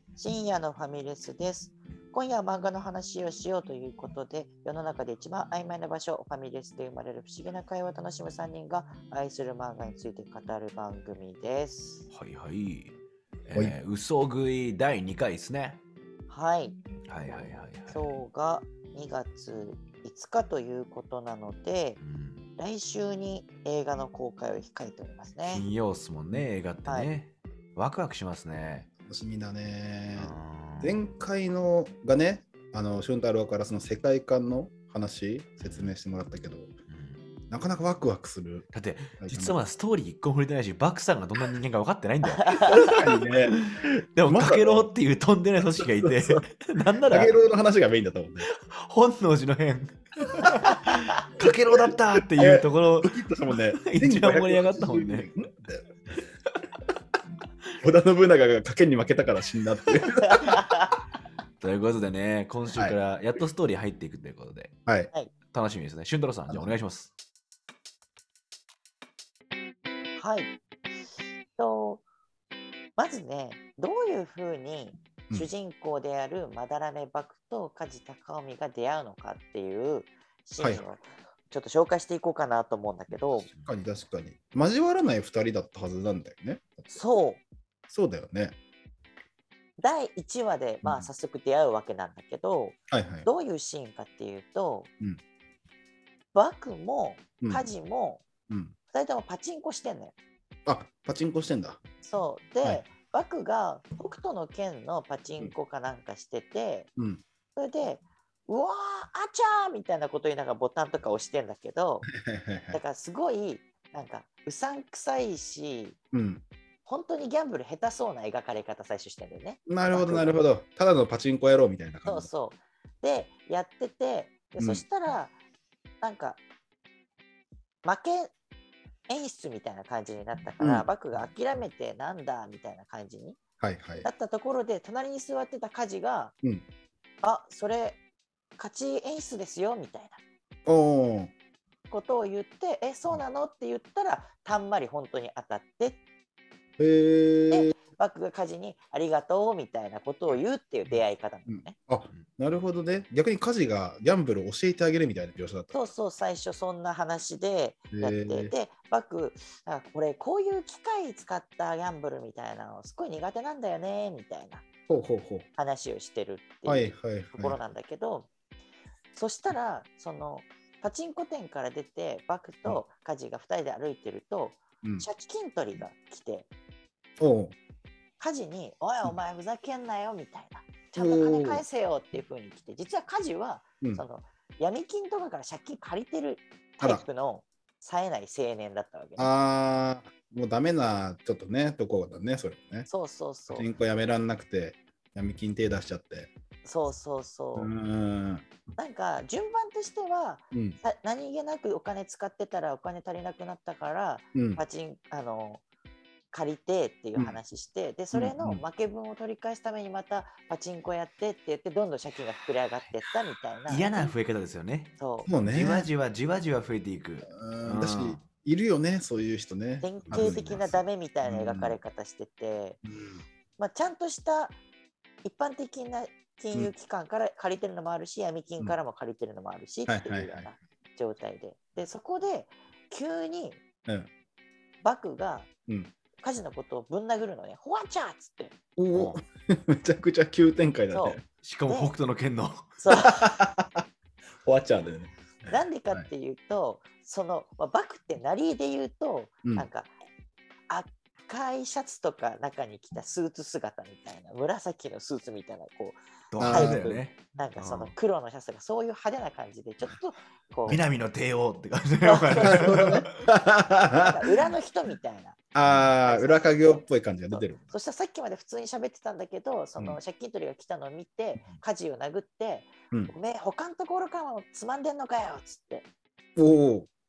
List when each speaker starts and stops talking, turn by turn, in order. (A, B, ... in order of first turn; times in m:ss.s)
0:00.2-0:12.1 A
0:12.1-0:13.0 B
0:13.5-0:15.8 B
0:16.3-0:16.8 A
0:17.1-0:18.2 B
0:17.3-0:22.0 A
0:22.0-0:22.5 B
0:22.6-0:25.6 A
0:25.5-0:28.9 B
0:29.0-0:36.7 C
0:30.2-0:31.0 B
0:35.6-0:35.9 B
0:36.9-0:37.2 B
0:37.5-0:38.7 C
0:38.7-0:47.3 B
0:39.2-0:39.5 C
0:42.4-0:42.7 A
0:42.6-0:44.9 C
0:45.6-0:46.4 C
0:47.1-0:48.5 C
0:48.6-0:53.2 B
0:50.4-0:50.8 C
0:51.4-0:55.7 C
0:53.8-0:55.4 B
0:57.8-1:00.7 C
1:00.2-1:01.0 A
1:01.6-1:04.7 B
1:05.5-1:07.1 B
1:10.2-1:10.5 A
1:11.6-1:12.0 A
1:13.0-1:23.5 A
1:20.6-1:20.9 C
1:23.6-1:27.0 C
1:26.9-1:27.4 A
1:27.9-1:28.6 C
1:29.8-1:34.9 A
1:30.8-1:31.1 C
1:32.9-1:33.3 C
1:36.3-1:38.2 A
1:38.5-1:38.8 C
1:38.9-1:40.1 A
1:40.7-1:41.8 C
1:42.0-1:46.9 A
1:47.0-1:47.2 C
1:47.6-1:52.1 A
1:52.1-1:52.8 C
1:52.7-1:56.0 A
1:56.1-1:56.4 C
1:56.8-2:00.3 A
1:59.7-2:02.3 C
2:02.0-2:05.3 A
2:04.6-2:04.8 C
2:06.0-2:06.4 A
2:07.8-2:08.3 A
2:09.1-2:13.4 A
2:10.6-2:10.9 C
2:13.6-2:14.1 C
2:14.0-2:16.4 A
2:17.2-2:18.0 A
2:18.6-2:20.2 A
2:20.7-2:21.3 C
2:21.9-2:26.0 A
2:26.8-2:27.8 C
2:27.5-2:31.8 A
2:31.5-2:35.8 C
2:35.7-2:44.6 A
2:37.9-2:38.5 C
2:44.9-2:45.5 C
2:45.6-2:48.3 A
2:46.7-2:47.6 C
2:49.1-2:56.5 A
2:57.2-2:57.6 C
2:58.2-3:09.3 A
3:01.0-3:01.6 C
3:09.2-3:12.9 C
3:12.9-3:13.7 A
3:13.5-3:16.3 C
3:16.6-3:17.7 A
3:17.6-3:18.5 C
3:18.8-3:25.6 A
3:20.5-3:20.8 C
3:24.4-3:24.6 C
3:26.3-3:34.1 A
3:28.1-3:28.6 C
3:33.7-3:38.2 B
3:35.0-3:35.3 A
3:35.3-3:35.9 C
3:37.3-3:41.8 C
3:39.8-3:42.8 A
3:40.1-3:40.4 B
3:42.8-3:43.2 C
3:43.6-3:44.6 A
3:45.2-3:53.6 A
3:49.9-3:50.5 C
3:54.8-3:55.5 A
3:55.7-3:55.9 C
3:56.2-3:58.6 A
3:58.8-4:01.2 C
3:58.9-3:59.2 B
4:00.9-4:01.9 A
4:01.4-4:02.8 B
4:02.8-4:03.3 A
4:03.1-4:03.8 C
4:04.4-4:06.1 C
4:05.5-4:09.9 A
4:10.7-4:16.8 A
4:16.3-4:17.9 B
4:16.4-4:17.0 C
4:17.4-4:20.8 A
4:20.7-4:23.1 B
4:22.0-4:23.0 A
4:22.4-4:24.1 C
4:23.9-4:25.4 A
4:25.5-4:27.7 C
4:26.0-4:35.9 A
4:36.4-4:36.9 C